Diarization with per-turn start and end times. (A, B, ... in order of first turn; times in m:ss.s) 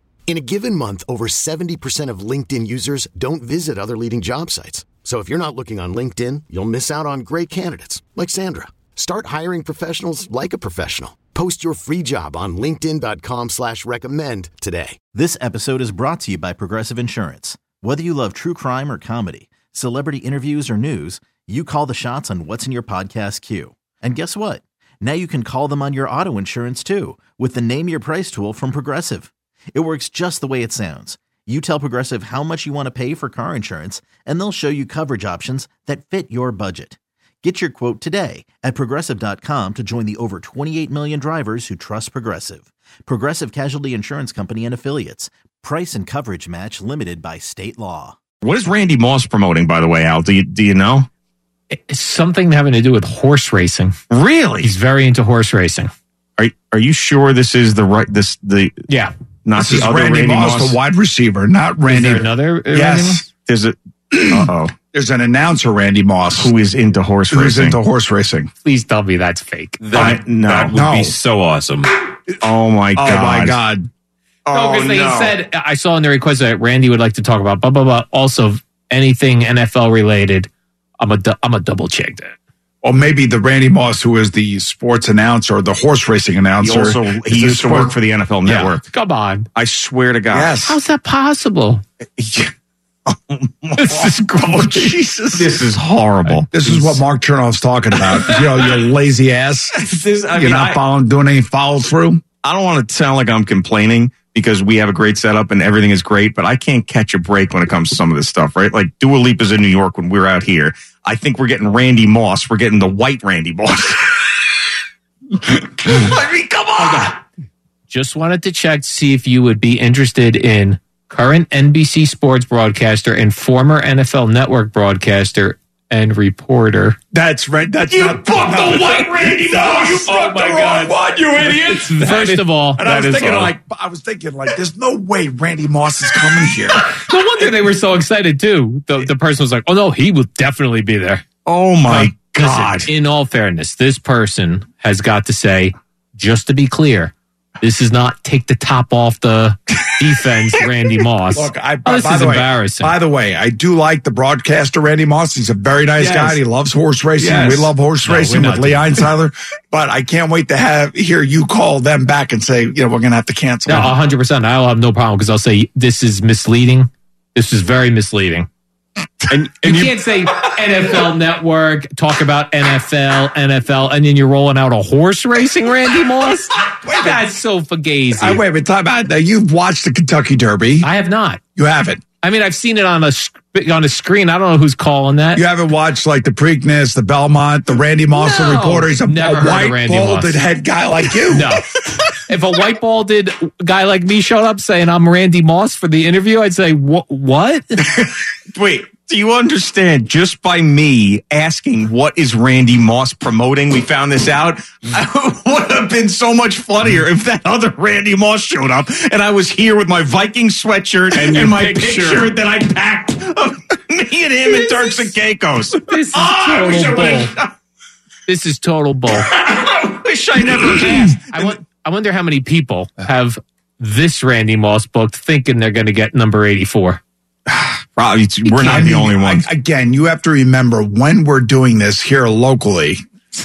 0:00.3-0:15.0 A
0:15.1-0:48.2 B
0:48.4-0:51.1 C
0:51.7-0:54.0 D
0:54.1-0:54.7 C
0:54.6-0:55.9 D
0:56.4-0:58.7 C
0:59.4-1:00.8 C
0:59.6-1:03.3 E
1:01.9-1:03.2 D
1:03.5-1:03.8 C
1:04.1-1:06.5 E
1:04.3-1:04.7 C
1:06.4-1:07.8 C
1:07.3-1:08.5 E
1:08.6-1:10.2 D
1:09.8-1:11.9 F
1:09.9-1:11.0 C
1:10.8-1:11.2 E
1:12.4-1:13.6 C
1:13.0-1:13.9 E
1:14.5-1:15.4 C
1:14.5-1:22.4 D
1:22.8-1:27.9 E
1:26.6-1:28.8 C
1:28.5-1:29.5 D
1:29.6-1:30.6 C
1:30.3-1:30.8 E
1:30.6-1:31.8 D
1:32.2-1:32.5 C
1:33.1-1:36.5 C
1:33.8-1:34.6 D
1:36.3-1:37.0 D
1:36.5-1:39.7 E
1:39.7-1:40.8 C
1:40.3-1:42.2 E
1:42.4-1:54.3 C
1:55.4-1:57.2 C
1:56.8-1:57.1 D
1:57.9-2:07.0 D
2:07.1-2:16.8 E
2:07.9-2:09.9 C
2:10.0-2:13.4 D
2:16.9-2:21.2 D
2:21.5-2:22.9 C
2:21.9-2:33.0 D
2:31.3-2:44.0 E
2:36.0-2:36.4 C
2:37.2-2:37.7 C
2:38.0-2:38.9 D
2:43.7-2:48.5 D
2:49.3-2:58.4 D
2:56.8-2:57.3 E
2:58.2-3:00.9 E
3:00.8-3:01.4 D
3:01.6-3:02.0 E
3:02.2-3:05.4 D
3:05.4-3:11.5 E
3:08.1-3:10.4 D
3:11.3-3:17.8 D
3:18.0-3:37.5 C
3:35.9-3:37.3 D
3:38.3-3:39.3 D
3:39.2-3:41.6 C
3:40.6-3:47.0 D
3:47.5-3:49.5 C
3:48.6-3:48.8 D
3:48.6-3:53.0 E